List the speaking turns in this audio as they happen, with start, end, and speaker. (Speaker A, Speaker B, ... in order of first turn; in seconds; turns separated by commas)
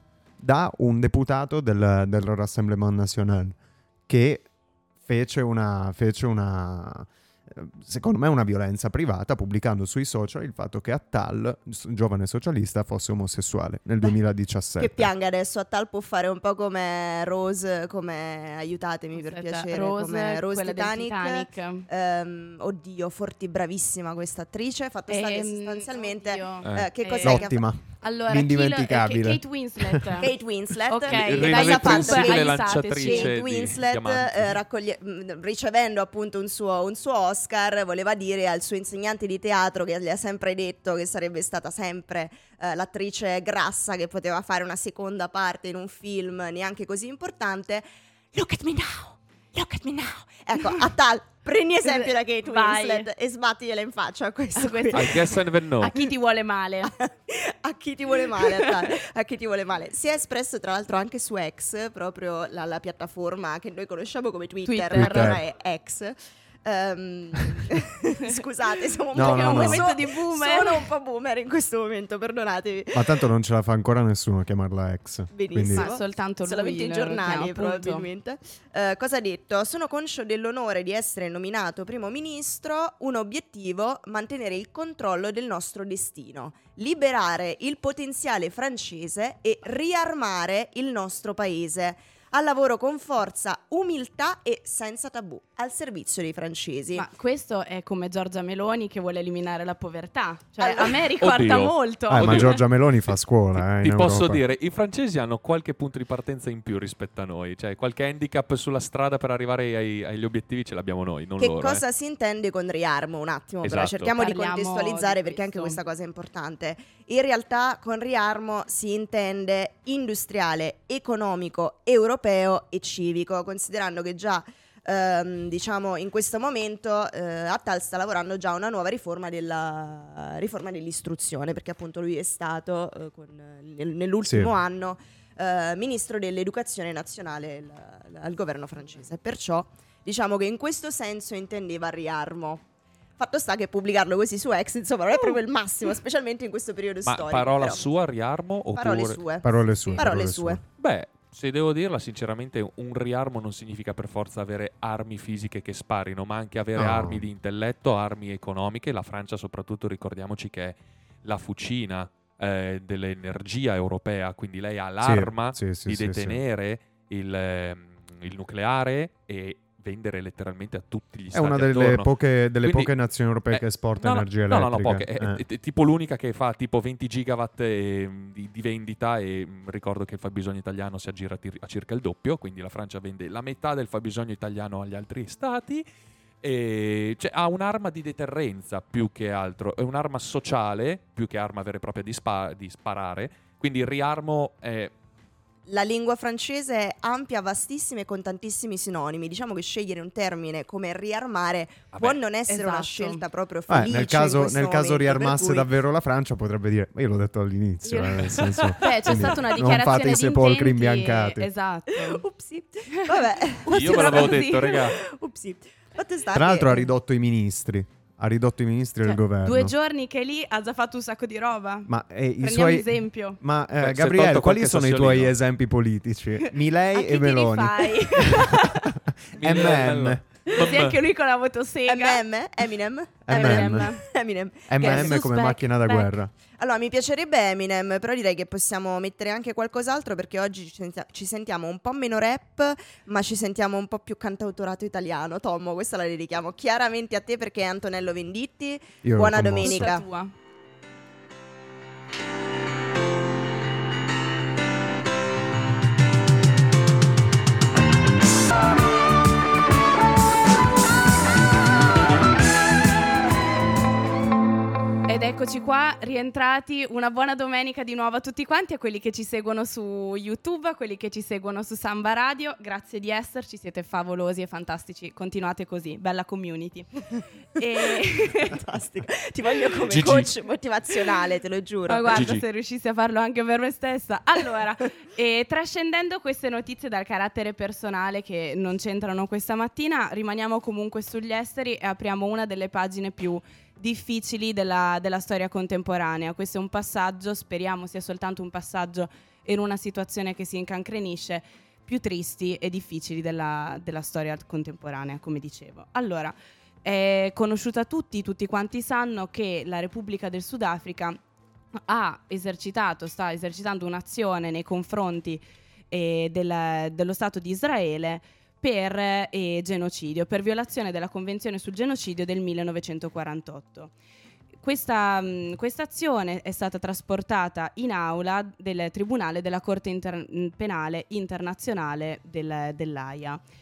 Speaker A: 0.4-3.6, Speaker A: 4.1-4.5, Speaker A: 5.0-15.1, Speaker B: 14.8-27.6, Speaker C: 19.1-21.9, Speaker C: 25.1-30.3, Speaker D: 26.6-26.9, Speaker A: 27.2-30.1, Speaker B: 30.2-56.1, Speaker C: 30.9-33.3, Speaker D: 31.1-34.6, Speaker C: 51.8-53.1, Speaker C: 54.5-56.9, Speaker D: 54.9-55.9, Speaker B: 56.9-73.1, Speaker C: 58.4-58.7, Speaker C: 64.7-65.4, Speaker A: 64.9-65.4, Speaker A: 69.1-69.8, Speaker C: 69.2-70.9, Speaker A: 72.9-75.9, Speaker B: 75.3-97.1, Speaker C: 75.7-78.1, Speaker C: 96.9-102.6, Speaker B: 100.6-101.0, Speaker D: 101.2-111.8, Speaker A: 102.1-104.4, Speaker B: 111.4-142.7, Speaker D: 113.6-114.1, Speaker C: 114.2-115.8, Speaker A: 134.2-134.5, Speaker B: 143.2-147.9, Speaker C: 145.2-145.4, Speaker D: 147.0-149.2, Speaker B: 148.7-150.6, Speaker A: 149.4-150.6, Speaker D: 150.8-172.1, Speaker A: 156.8-157.2, Speaker A: 165.0-166.4, Speaker A: 171.3-175.4, Speaker D: 172.6-172.9, Speaker D: 173.5-185.8, Speaker D: 186.4-194.9, Speaker B: 195.7-205.7, Speaker D: 201.9-202.2, Speaker C: 202.5-203.2, Speaker A: 203.7-211.5, Speaker C: 207.8-212.2, Speaker D: 208.2-208.9, Speaker B: 211.9-216.9, Speaker C: 212.9-214.9, Speaker D: 213.7-215.0, Speaker A: 216.3-219.7, Speaker C: 219.0-223.4, Speaker A: 221.9-230.2, Speaker D: 223.8-225.3, Speaker C: 226.4-228.9, Speaker D: 229.3-231.0, Speaker C: 230.5-232.2, Speaker B: 231.9-235.2, Speaker A: 233.3-234.0, Speaker C: 233.3-234.1, Speaker A: 234.7-236.3, Speaker C: 234.8-236.1, Speaker B: 236.6-250.1, Speaker A: 249.0-249.9, Speaker C: 249.6-250.3, Speaker C: 265.1-277.0, Speaker C: 277.6-278.6, Speaker B: 278.3-282.2, Speaker D: 279.9-280.3, Speaker C: 281.9-311.2, Speaker D: 282.1-282.4, Speaker C: 311.9-323.9, Speaker C: 324.6-333.4